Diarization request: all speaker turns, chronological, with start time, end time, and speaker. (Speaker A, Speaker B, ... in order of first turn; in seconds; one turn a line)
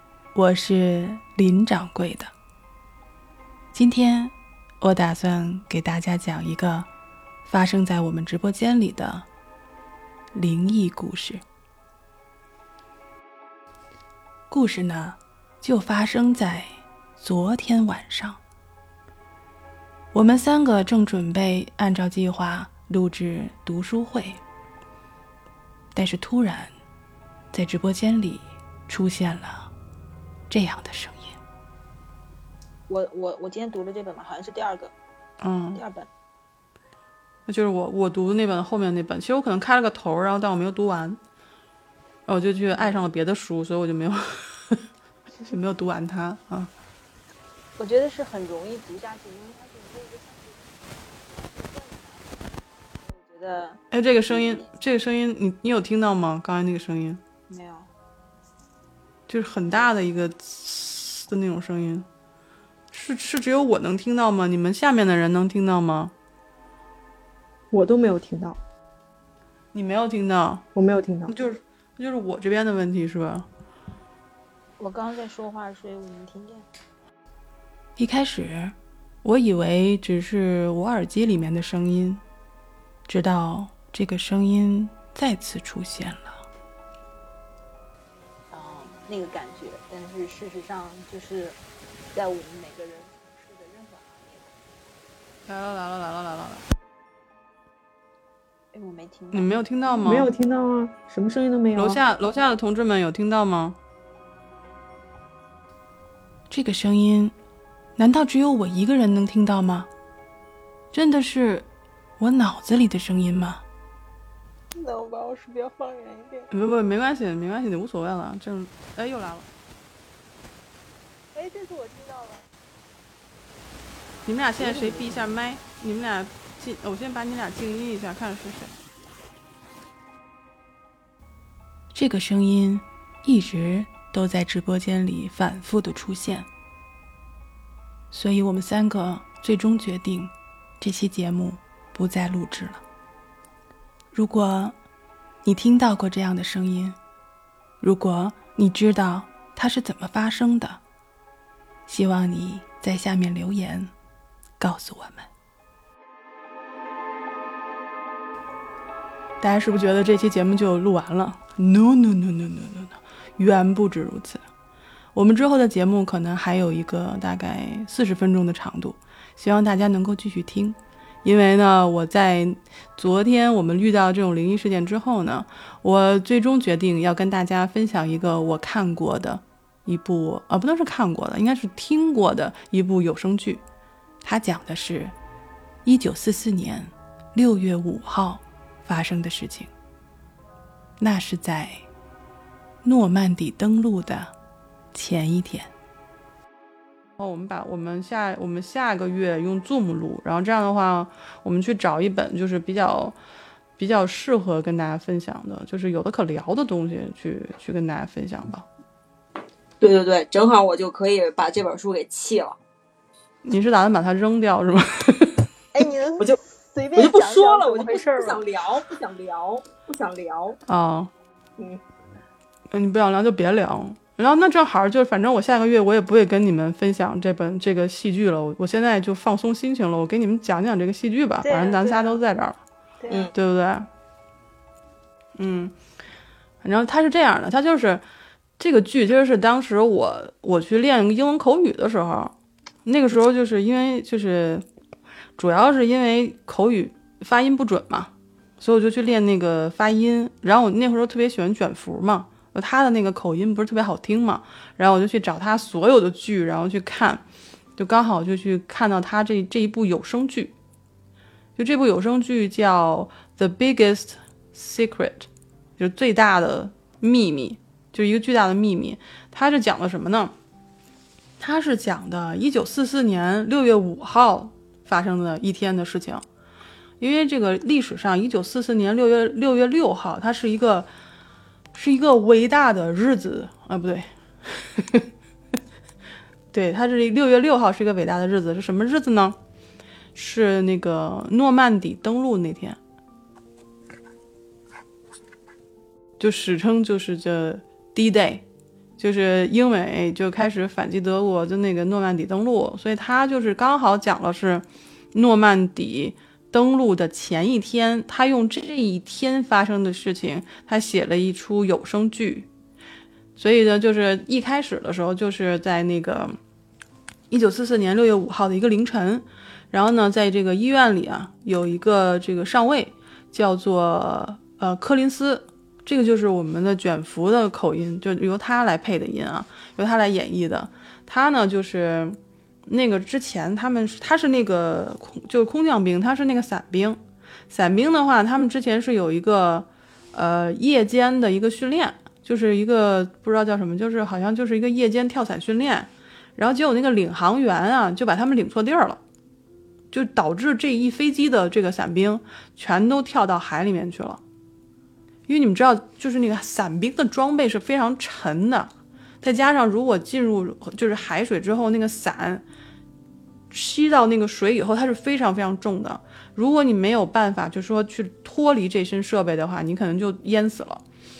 Speaker A: 0.3-2.3
Speaker A: 3.7-6.9
Speaker A: 7.5-9.3
Speaker A: 10.3-11.4
Speaker A: 14.5-18.4
Speaker A: 20.1-24.4
Speaker A: 25.9-26.7
Speaker A: 27.5-29.7
Speaker A: 30.5-31.4
Speaker B: 32.9-34.9
Speaker A: 35.4-35.8
Speaker B: 35.7-36.1
Speaker A: 37.5-41.2
Speaker A: 42.3-44.8
Speaker A: 45.5-46.7
Speaker B: 47.8-54.7
Speaker A: 53.9-57.2
Speaker B: 57.5-57.9
Speaker A: 59.3-62.1
Speaker A: 62.9-66.1
Speaker C: 67.7-68.6
Speaker A: 69.7-70.6
Speaker C: 70.7-71.3
Speaker A: 71.3-73.5
Speaker B: 74.8-76.7
Speaker A: 78.0-82.2
Speaker A: 83.1-86.4
Speaker B: 88.5-91.6
Speaker B: 92.1-94.5
Speaker A: 95.5-96.7
Speaker B: 98.7-100.3
Speaker A: 99.3-100.3
Speaker C: 100.0-102.0
Speaker A: 101.7-103.8
Speaker A: 106.5-107.3
Speaker A: 108.0-109.9
Speaker A: 110.9-111.7
Speaker A: 112.2-113.6
Speaker B: 114.7-116.5
Speaker A: 116.5-119.5
Speaker B: 121.3-122.5
Speaker A: 124.2-128.7
Speaker B: 124.6-125.2
Speaker A: 131.9-136.5
Speaker A: 138.1-142.8
Speaker A: 144.1-144.8
Speaker A: 145.4-147.0
Speaker A: 147.8-150.8
Speaker A: 151.9-153.9
Speaker A: 154.6-155.3
Speaker A: 159.4-164.4
Speaker A: 165.1-183.6
Speaker A: 184.2-185.1
Speaker A: 185.8-189.7
Speaker A: 191.0-191.8
Speaker A: 192.8-194.3
Speaker A: 194.9-195.7
Speaker A: 197.2-203.2
Speaker A: 203.8-208.7
Speaker D: 209.8-212.6
Speaker A: 213.4-215.5
Speaker B: 215.7-218.4
Speaker D: 216.9-220.6
Speaker A: 220.7-221.1
Speaker A: 222.7-232.6
Speaker B: 231.4-232.2
Speaker B: 233.0-233.3
Speaker A: 233.3-233.9
Speaker A: 235.4-235.7
Speaker A: 236.6-238.0
Speaker A: 238.6-242.3
Speaker A: 242.8-244.6
Speaker A: 245.4-257.2
Speaker A: 257.8-260.5
Speaker A: 261.6-270.3
Speaker A: 271.4-276.2
Speaker A: 277.0-280.9
Speaker A: 281.7-285.1
Speaker A: 286.5-289.4
Speaker A: 290.1-292.8
Speaker A: 296.2-298.4
Speaker A: 299.0-312.5
Speaker A: 313.4-316.4
Speaker A: 317.3-337.0
Speaker A: 337.5-349.0
Speaker A: 349.9-354.2
Speaker A: 355.3-358.7
Speaker A: 359.2-362.4
Speaker A: 363.5-370.8